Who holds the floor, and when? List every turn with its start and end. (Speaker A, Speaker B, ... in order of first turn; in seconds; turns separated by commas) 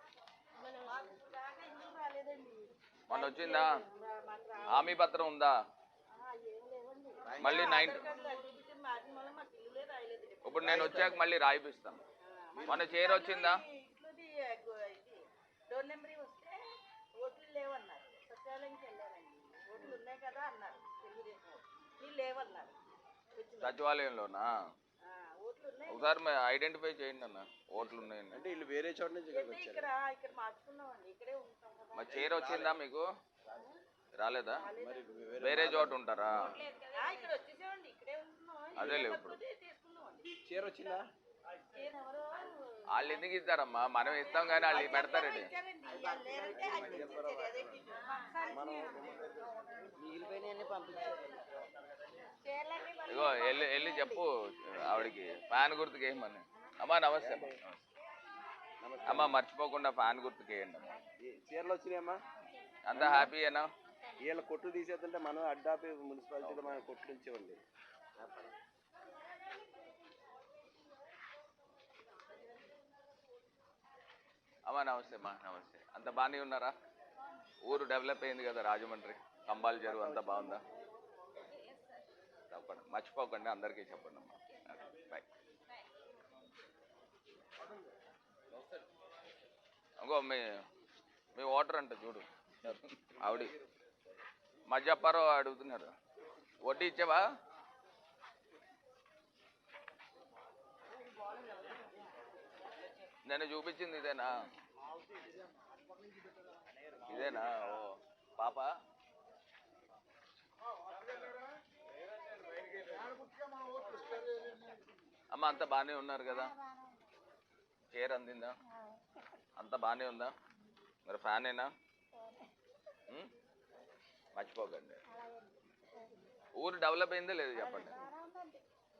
Speaker A: 0.8-5.0, Speaker B: 3.1-3.7, Speaker B: 4.7-5.6, Speaker A: 6.2-11.2, Speaker C: 7.3-7.9, Speaker B: 7.4-8.1, Speaker B: 10.4-12.0, Speaker C: 10.7-11.1, Speaker A: 12.5-16.6, Speaker B: 12.7-13.6, Speaker A: 17.1-22.8, Speaker A: 23.4-23.9, Speaker B: 23.6-24.6, Speaker A: 25.1-26.2, Speaker B: 25.9-28.4, Speaker C: 27.8-29.9, Speaker A: 29.3-32.7, Speaker B: 31.9-33.1, Speaker B: 34.1-34.7, Speaker A: 34.6-35.3, Speaker C: 34.7-36.7, Speaker B: 35.4-36.5, Speaker A: 36.4-40.3, Speaker B: 38.8-39.4, Speaker C: 40.4-41.0, Speaker A: 41.7-43.2, Speaker B: 42.9-45.5, Speaker A: 44.2-49.0, Speaker C: 45.9-51.1, Speaker A: 50.1-50.9, Speaker A: 52.4-54.2, Speaker B: 53.1-57.8, Speaker C: 57.2-57.6, Speaker C: 58.8-59.4, Speaker B: 59.1-61.0, Speaker C: 61.2-62.2, Speaker B: 62.9-63.7, Speaker C: 62.9-63.3, Speaker C: 64.2-67.6, Speaker B: 66.5-66.8, Speaker B: 74.7-76.7, Speaker B: 77.6-80.6, Speaker C: 79.8-80.6, Speaker B: 82.5-85.2, Speaker B: 90.0-90.5, Speaker B: 91.3-93.5, Speaker B: 94.7-95.9, Speaker B: 96.6-97.2, Speaker B: 103.3-104.4, Speaker B: 107.1-108.7, Speaker B: 115.3-116.5, Speaker B: 117.9-118.6, Speaker B: 119.6-120.3, Speaker B: 121.1-121.7, Speaker B: 124.4-125.0, Speaker B: 126.6-128.1, Speaker A: 127.6-128.4